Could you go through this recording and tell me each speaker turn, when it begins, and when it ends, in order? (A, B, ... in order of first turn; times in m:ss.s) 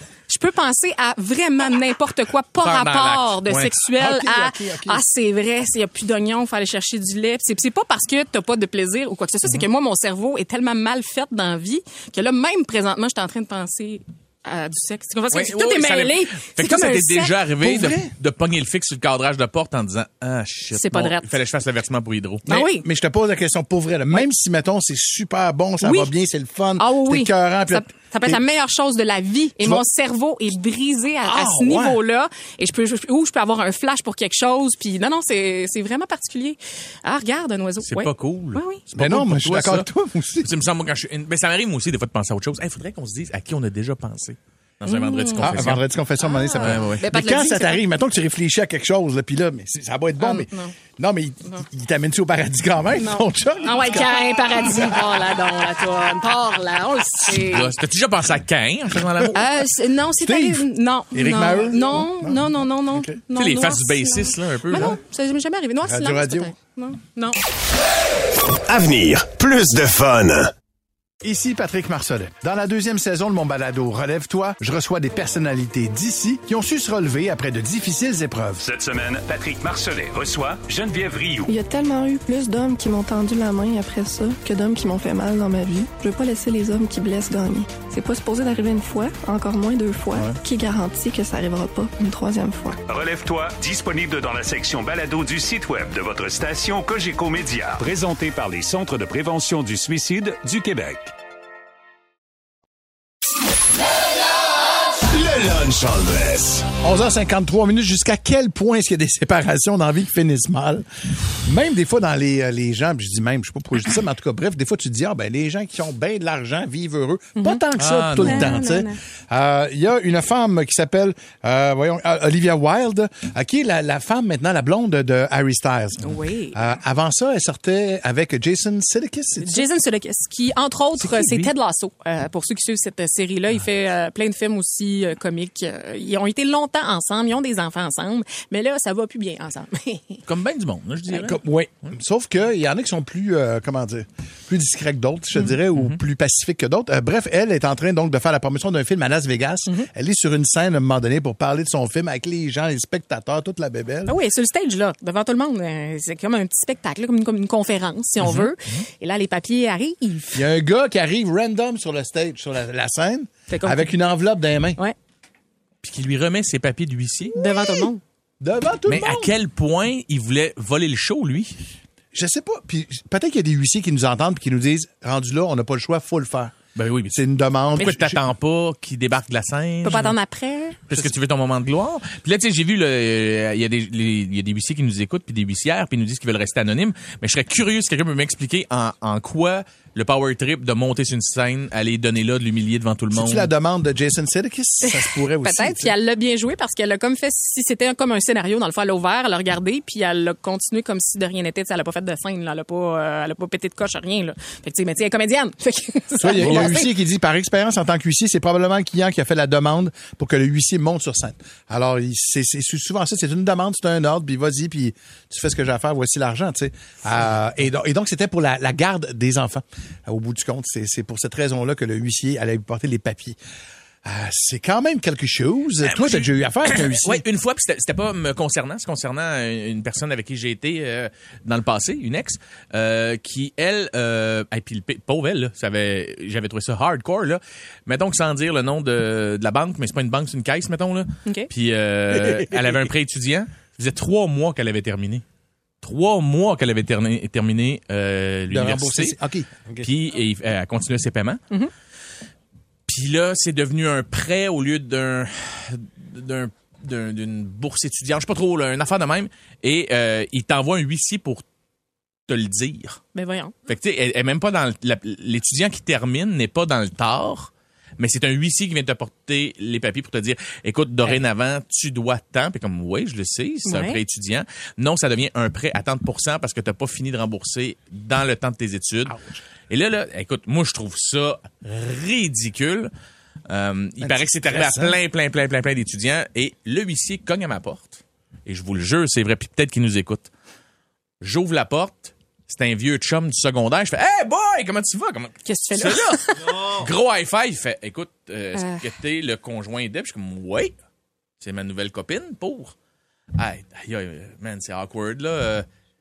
0:00.3-0:17.3 A
0:02.6-0:03.7 B
0:03.8-0:05.0 C
0:15.3-0:22.5 B
0:17.6-0:18.1 C
0:20.7-0:21.3 A
0:22.5-0:28.4 C
0:22.5-0:22.8 A
0:25.8-0:26.1 A
0:26.8-0:38.8 A
0:29.6-0:29.8 C
0:31.3-0:32.0 C
0:37.8-0:39.9 B
0:38.9-0:40.5 C
0:40.4-0:45.8 B
0:44.8-0:45.6 A
0:45.4-0:55.2 C
0:46.2-0:47.8 A
0:46.6-0:47.1 B
0:50.2-0:50.8 A
0:53.0-0:57.7 A
0:57.5-0:59.4 B
0:59.4-1:07.4 A
1:00.2-1:03.2 C
1:03.4-1:05.0 B
1:05.8-1:06.5 C
1:08.6-1:10.5 D
1:11.2-1:18.6 C
1:18.6-1:21.5 E
1:21.5-1:32.8 F
1:32.9-1:41.1 E
1:45.0-1:46.7 D
1:46.8-1:50.9 C
1:51.4-2:06.0 C
1:57.4-1:57.7 A
1:57.8-1:58.6 B
1:58.2-1:59.0 A
2:06.0-2:06.6 A
2:06.5-2:09.7 C
2:09.4-2:20.2 A
2:20.2-2:21.4 B
2:21.2-2:34.2 C
2:25.7-2:26.0 B
2:34.1-2:40.5 A
2:38.2-2:38.8 B
2:40.3-2:44.8 C
2:43.5-2:43.9 A
2:45.8-2:47.4 B
2:47.4-2:48.0 A
2:48.4-2:49.3 C
2:48.9-2:51.5 B
2:52.1-2:56.6 C
2:56.8-2:57.2 B
2:57.1-2:58.2 C
2:57.8-3:00.2 B
2:59.8-3:00.8 A
3:00.9-3:13.5 B
3:13.1-3:16.0 C
3:14.9-3:26.9 A
3:26.2-3:43.4 C
3:44.0-3:47.2 C
3:45.8-4:05.2 B
4:02.1-4:02.8 C
4:05.8-4:09.2 B
4:08.5-4:09.9 C
4:09.8-4:11.4 B
4:12.9-4:21.4 B
4:22.3-4:23.0 B
4:23.2-4:23.5 A
4:23.7-4:39.2 B
4:33.7-4:34.0 A
4:39.1-4:39.4 C
4:39.7-4:42.9 B
4:43.5-4:50.3 B
4:44.0-4:45.0 C
4:51.2-5:00.7 B
4:55.4-4:56.7 A
4:58.6-4:58.8 A
5:01.4-5:02.7 B
5:03.4-5:05.7 B